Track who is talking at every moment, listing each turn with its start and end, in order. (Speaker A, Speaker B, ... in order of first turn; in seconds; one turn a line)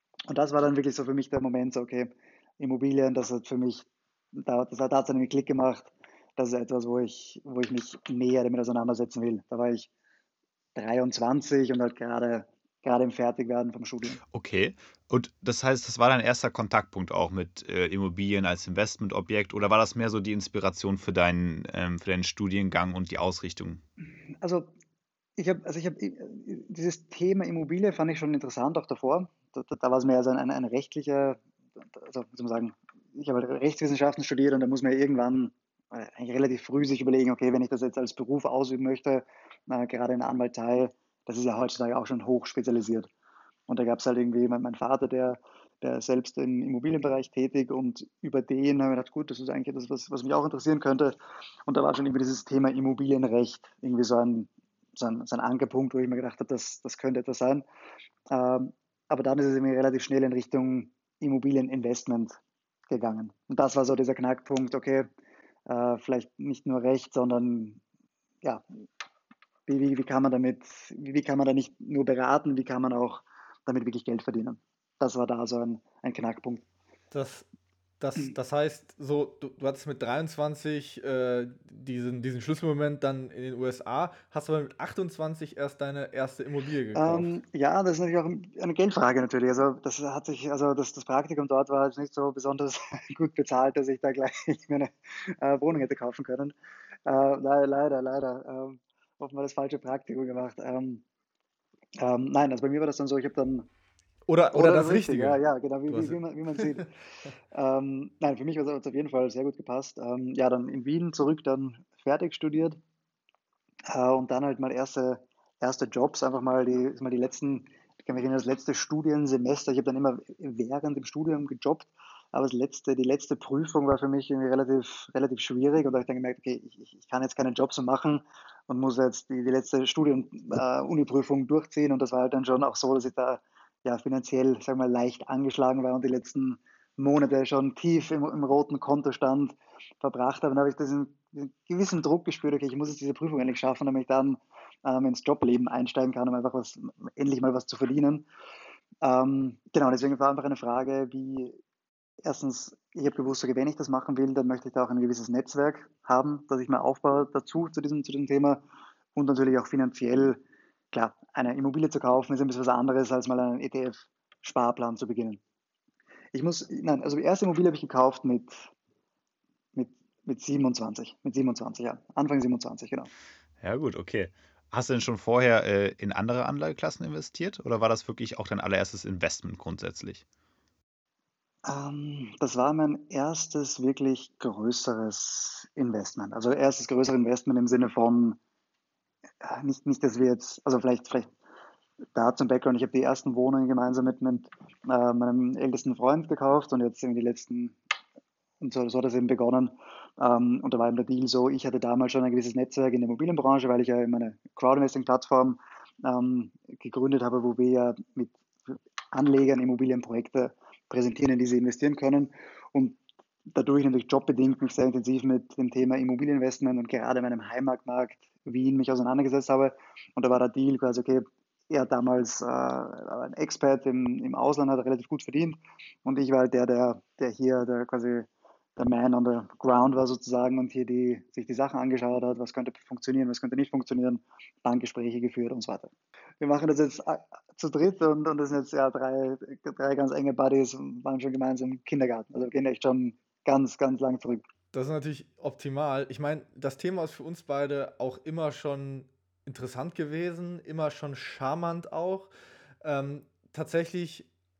Speaker A: 0.3-9.9
Speaker A: 10.8-14.2
Speaker B: 14.3-23.8
Speaker A: 24.4-24.7
Speaker A: 25.4-31.4
Speaker A: 31.9-43.1
Speaker A: 43.7-51.1
Speaker A: 51.7-57.6
Speaker A: 58.3-62.4
Speaker A: 62.9-65.1
Speaker A: 65.7-67.8
Speaker A: 69.7-76.6
Speaker C: 77.1-77.5
Speaker C: 78.0-87.3
Speaker A: 87.0-96.5
Speaker A: 97.1-101.0
Speaker A: 102.0-103.7
Speaker C: 104.3-105.4
Speaker A: 104.5-106.9
Speaker C: 105.9-106.7
Speaker A: 107.5-112.8
Speaker A: 113.9-148.3
Speaker A: 149.0-151.6
Speaker A: 152.2-158.6
Speaker A: 159.2-160.4
Speaker A: 160.9-165.4
Speaker A: 166.3-168.7
Speaker A: 169.8-173.1
Speaker B: 173.6-180.2
Speaker A: 181.7-188.4
Speaker A: 189.4-191.3
Speaker A: 192.2-197.8
Speaker A: 198.6-208.4
Speaker A: 209.1-213.0
Speaker A: 213.6-244.4
Speaker C: 244.7-252.3
Speaker C: 252.8-254.3